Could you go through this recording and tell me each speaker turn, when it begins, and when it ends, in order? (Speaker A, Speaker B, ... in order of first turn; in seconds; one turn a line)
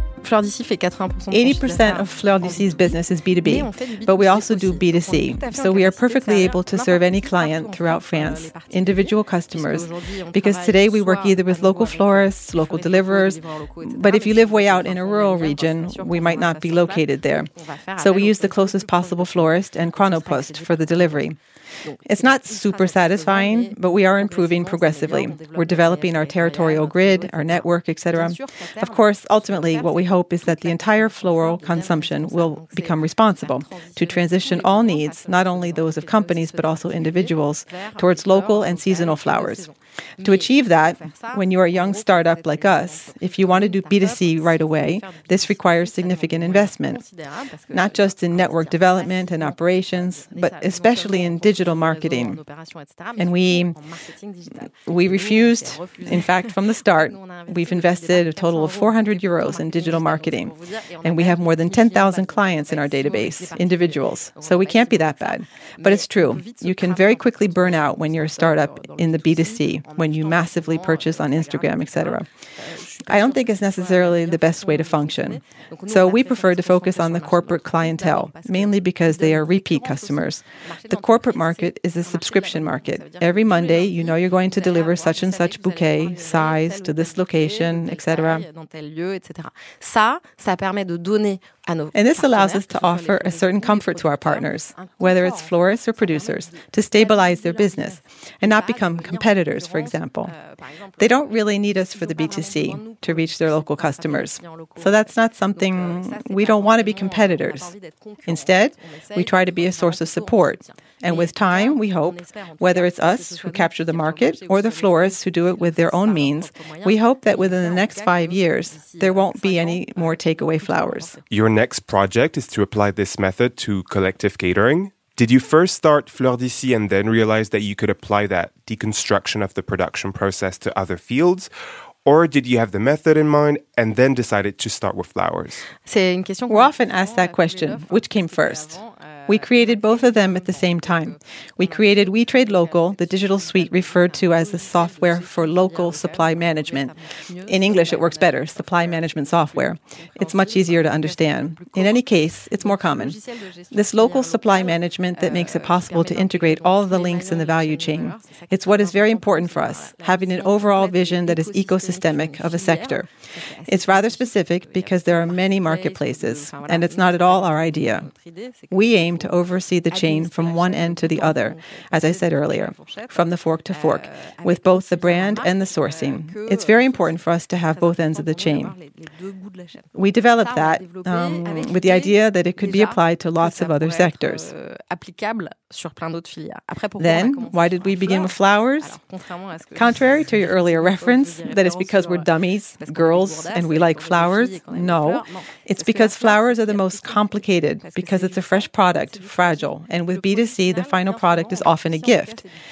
Speaker A: 0.2-1.9
Speaker B: 1.3-21.4
Speaker B: 22.0-47.0
Speaker B: 47.7-52.4
Speaker B: 53.1-53.8
Speaker B: 54.8-72.3
Speaker B: 73.1-88.5
Speaker A: 88.7-91.8
Speaker B: 91.9-100.3
Speaker B: 101.0-107.7
Speaker B: 108.2-121.2
Speaker C: 121.3-131.5
Speaker C: 132.0-135.6
Speaker A: 135.8-136.5
Speaker B: 136.5-153.2
Speaker B: 153.7-163.1
Speaker B: 163.7-168.1
Speaker B: 168.7-178.8
Speaker B: 179.9-184.5
Speaker A: 185.5-186.6
Speaker B: 187.0-189.0
Speaker B: 189.7-202.4